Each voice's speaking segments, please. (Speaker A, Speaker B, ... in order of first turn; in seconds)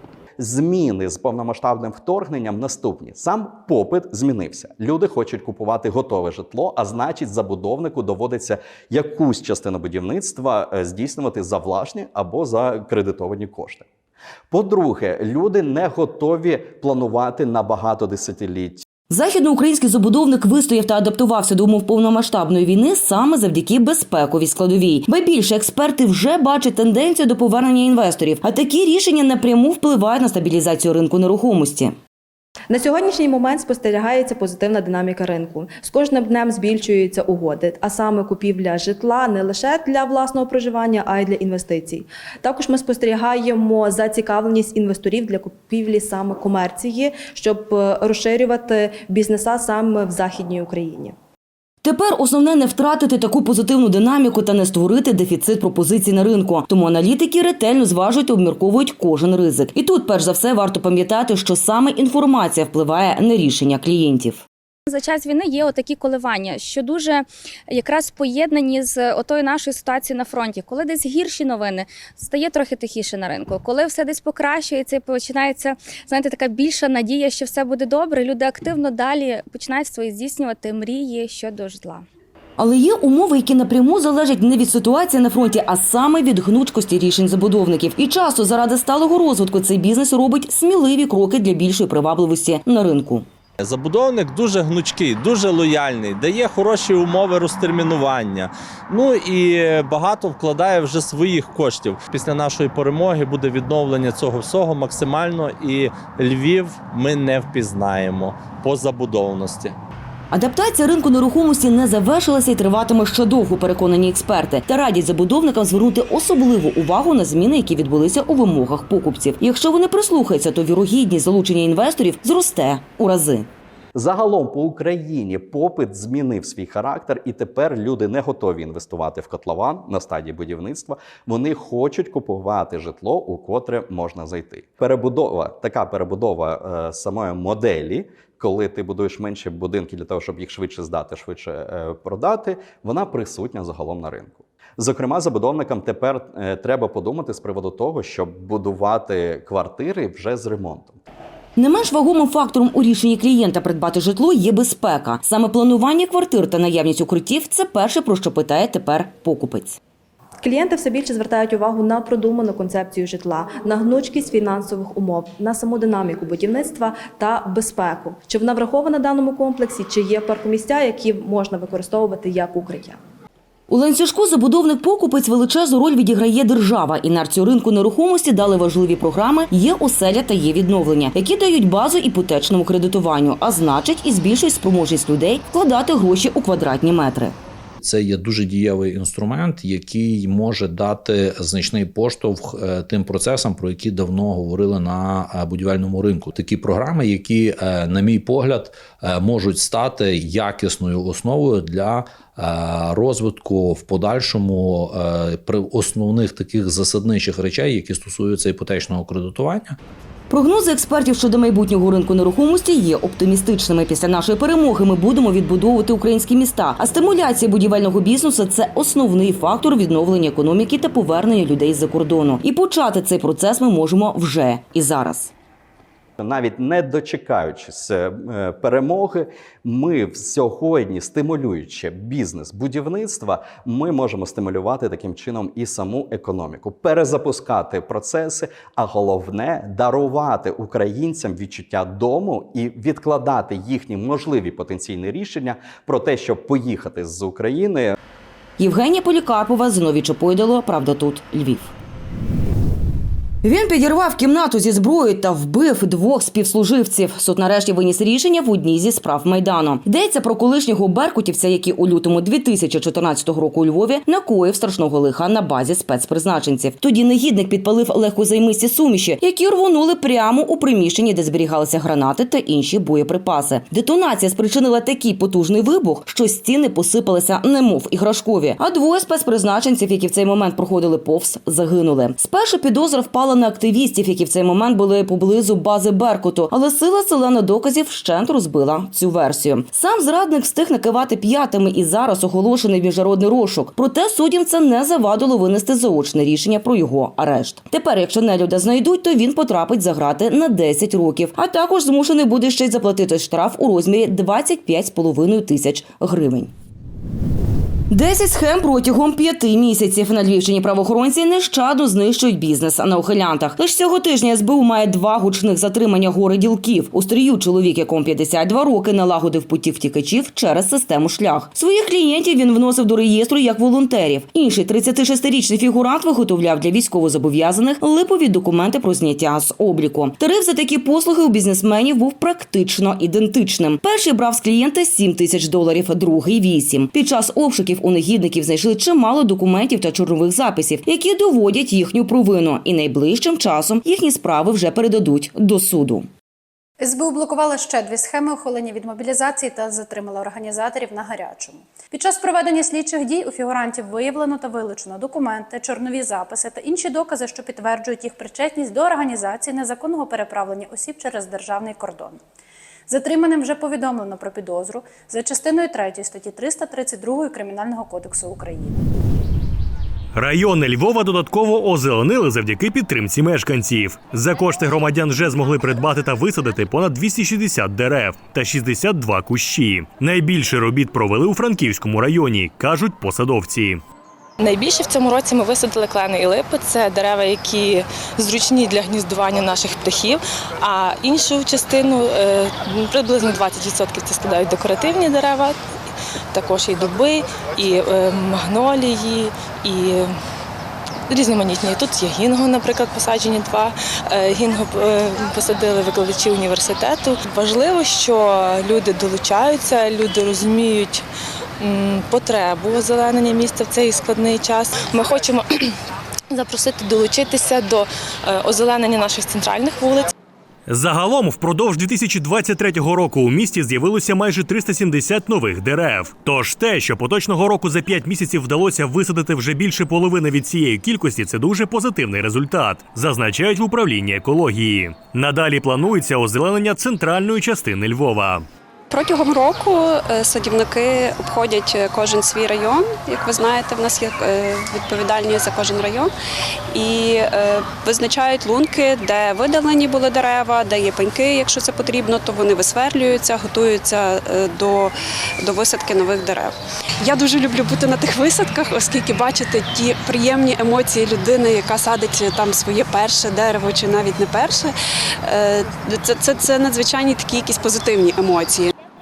Speaker A: 0.4-13.9, 14.5-18.8, 124.0-151.0, 226.2-248.0
Speaker B: 19.1-31.9, 51.8-64.5, 82.6-93.2, 110.3-123.5, 151.6-159.8, 173.7-187.3, 210.3-225.3, 248.6-251.7, 253.4-306.5, 307.9-346.1
Speaker C: 32.7-51.1, 160.4-173.0
Speaker D: 64.9-82.0
Speaker E: 93.6-109.8
Speaker F: 187.8-209.8
Speaker G: 346.8-362.2, 362.9-368.7
Speaker H: 370.1-383.8, 420.7-438.4
Speaker I: 384.4-395.6, 396.3-400.2, 401.1-411.1, 411.6-415.7, 416.3-420.1
Speaker J: 438.9-446.1, 446.7-468.7